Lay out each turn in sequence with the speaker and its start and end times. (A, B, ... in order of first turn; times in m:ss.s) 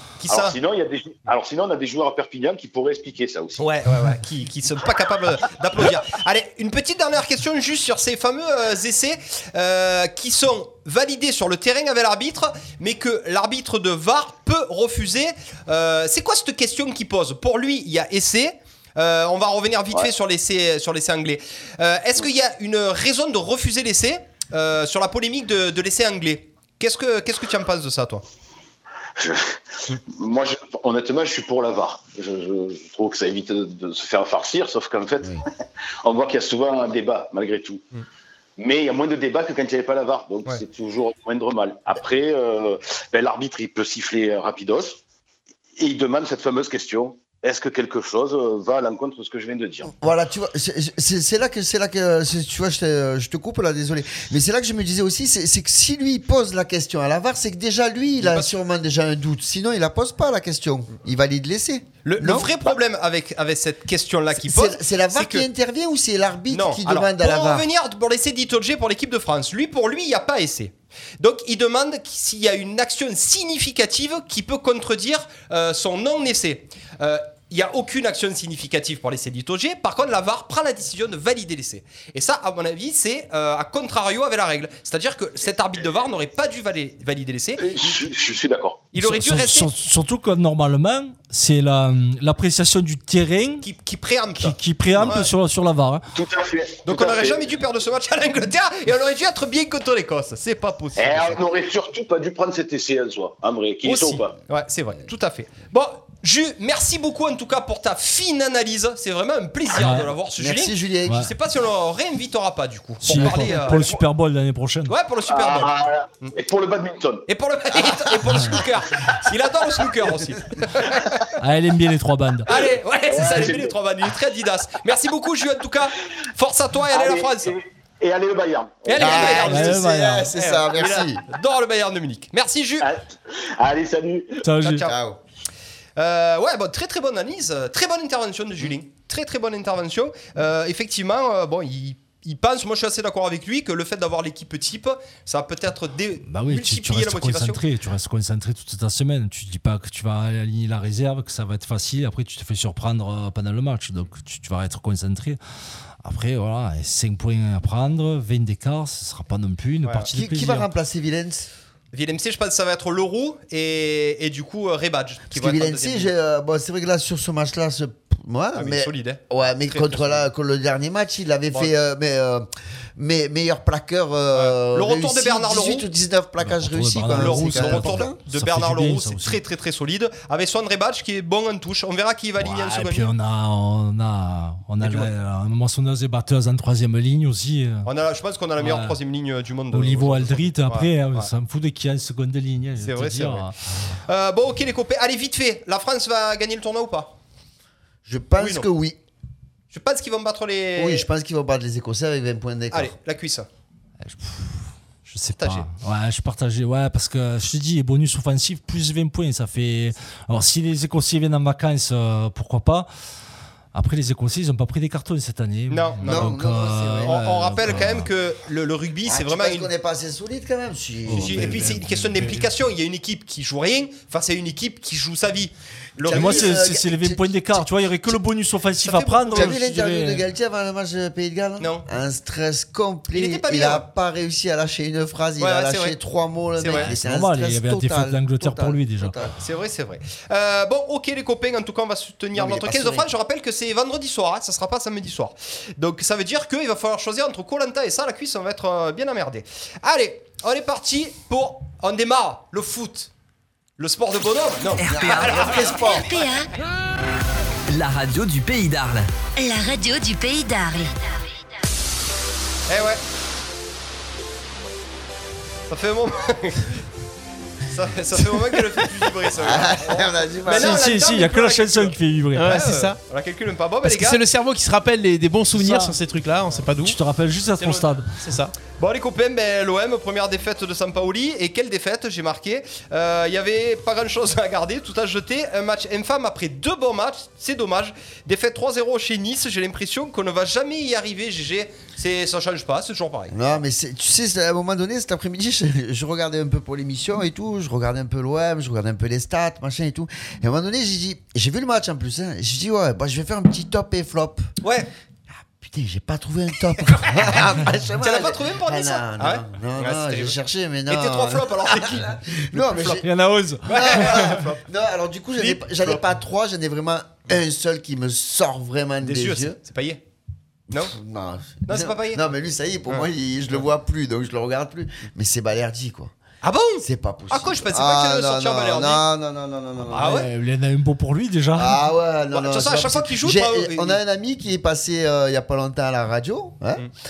0:00.2-0:00.6 A
0:00.3-0:03.6 B
0:03.6-0:28.2 A
0:29.2-0:35.4 B
0:36.0-0:37.8 B
0:38.6-0:45.0 B
0:45.8-0:50.0 B
0:49.9-1:02.7 C
0:58.2-0:58.5 A
1:02.0-1:05.4 A
1:04.4-1:07.6 C
1:06.5-1:27.7 A
1:27.6-1:28.8 B
1:28.9-1:29.7 A
1:29.0-1:33.6 D
1:33.6-1:35.3 A
1:34.4-1:36.0 D
1:36.1-1:37.5 B
1:36.8-1:41.4 A
1:41.0-1:44.3 B
1:43.8-1:53.9 A
1:49.8-1:50.1 D
1:50.4-1:51.2 C
1:53.0-1:54.9 D
1:54.9-1:55.7 A
1:55.3-1:57.8 B
1:57.3-2:01.3 A
1:58.3-1:58.6 D
2:01.4-2:02.5 D
2:02.5-2:07.5 A
2:03.1-2:03.7 B
2:06.9-2:09.7 B
2:08.8-2:12.9 A
2:09.0-2:11.2 C
2:09.4-2:10.3 D
2:12.8-2:14.4 B
2:14.4-2:14.8 D
2:14.6-2:15.0 A
2:14.8-2:15.2 C
2:16.0-2:27.6 A
2:26.3-2:35.4 D
2:36.0-2:40.7 D
2:40.1-2:41.5 C
2:41.9-2:46.1 A
2:45.3-2:58.2 C
2:48.5-2:50.2 A
2:54.3-2:55.9 A
2:56.4-2:59.4 D
2:57.1-3:03.1 A
3:02.4-3:07.9 D
3:04.8-3:05.1 A
3:07.8-3:11.3 A
3:08.6-3:09.0 D
3:09.7-3:13.5 D
3:12.8-3:13.5 A
3:14.0-3:17.1 A
3:18.0-3:19.0 C
3:18.4-3:18.7 A
3:19.7-3:21.1 A
3:20.8-3:22.9 C
3:22.7-3:23.5 A
3:24.0-3:32.9 D
3:25.3-3:25.7 A
3:33.7-3:38.1 D
3:35.7-3:39.7 A
3:36.0-3:37.2 C
3:39.0-3:41.7 C
3:41.1-3:42.5 D
3:41.1-3:46.6 A
3:46.0-3:48.1 C
3:46.1-3:50.2 D
3:48.8-3:49.6 A
3:49.3-3:59.3 C
3:53.1-3:53.8 A
3:55.4-3:55.9 A
3:56.6-3:56.9 A
3:56.7-3:59.1 D
3:59.4-4:13.1 A
4:02.3-4:03.1 C
4:13.8-4:16.1 A
4:14.8-4:15.3 E
4:14.8-4:16.1 C
4:16.0-4:16.5 F
4:17.7-4:19.1 E
4:19.4-4:21.3 F
4:22.7-4:23.0 A
4:25.7-4:26.7 A
4:27.7-4:34.2 A
4:29.4-4:30.8 C
4:30.5-4:32.5 D
4:32.4-4:33.0 G
4:33.8-4:37.0 G
4:35.5-4:35.9 D
4:36.8-4:38.1 D
4:37.6-4:53.5 A
4:38.2-4:38.5 G
4:53.3-5:04.5 C
5:04.6-5:04.9 A
5:05.6-5:13.0 C
5:08.0-5:13.0 A
5:13.0-5:14.3 D
5:13.6-5:19.6 C
5:13.7-5:14.6 A
5:15.4-5:16.0 A
5:19.0-5:20.0 A
5:20.7-5:26.1 C
5:21.6-5:22.2 A
5:26.4-5:29.0 A
5:26.8-5:30.2 C
5:29.9-5:30.3 A
5:29.9-5:31.8 D
5:31.6-5:36.8 C
5:32.3-5:34.0 A